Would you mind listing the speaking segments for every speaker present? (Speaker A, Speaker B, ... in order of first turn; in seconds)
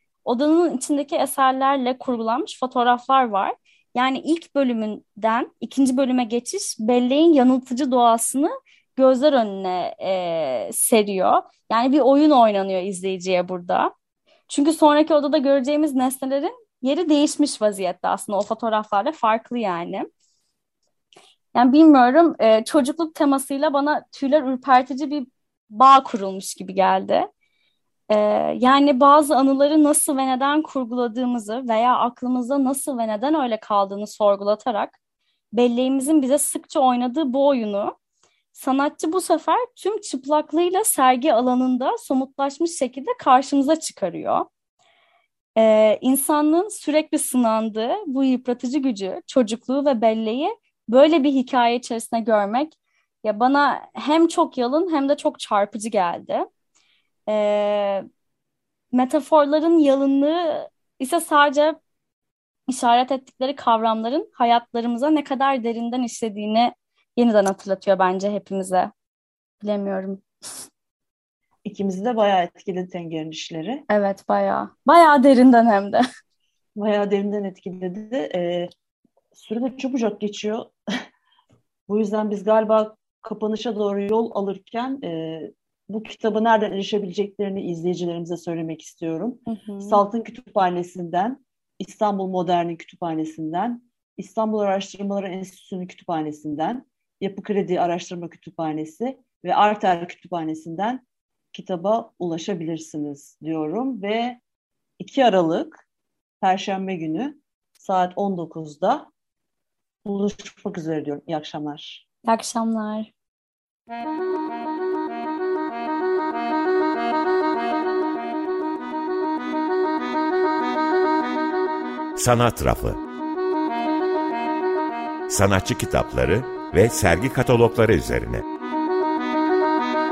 Speaker A: 0.2-13.9, 14.5-20.1, 21.5-27.3, 28.1-35.0, 35.5-37.9, 38.5-44.4, 45.5-56.5, 57.3-58.0, 58.9-61.8, 62.7-68.9, 69.6-70.2, 73.9-76.0, 89.5-90.0, 112.2-113.1
Speaker B: 71.6-73.8, 76.8-78.7, 79.3-80.7, 81.9-101.0, 101.5-104.4, 105.0-105.8, 106.4-109.1, 110.0-112.0
Speaker C: 122.2-123.0, 125.3-128.4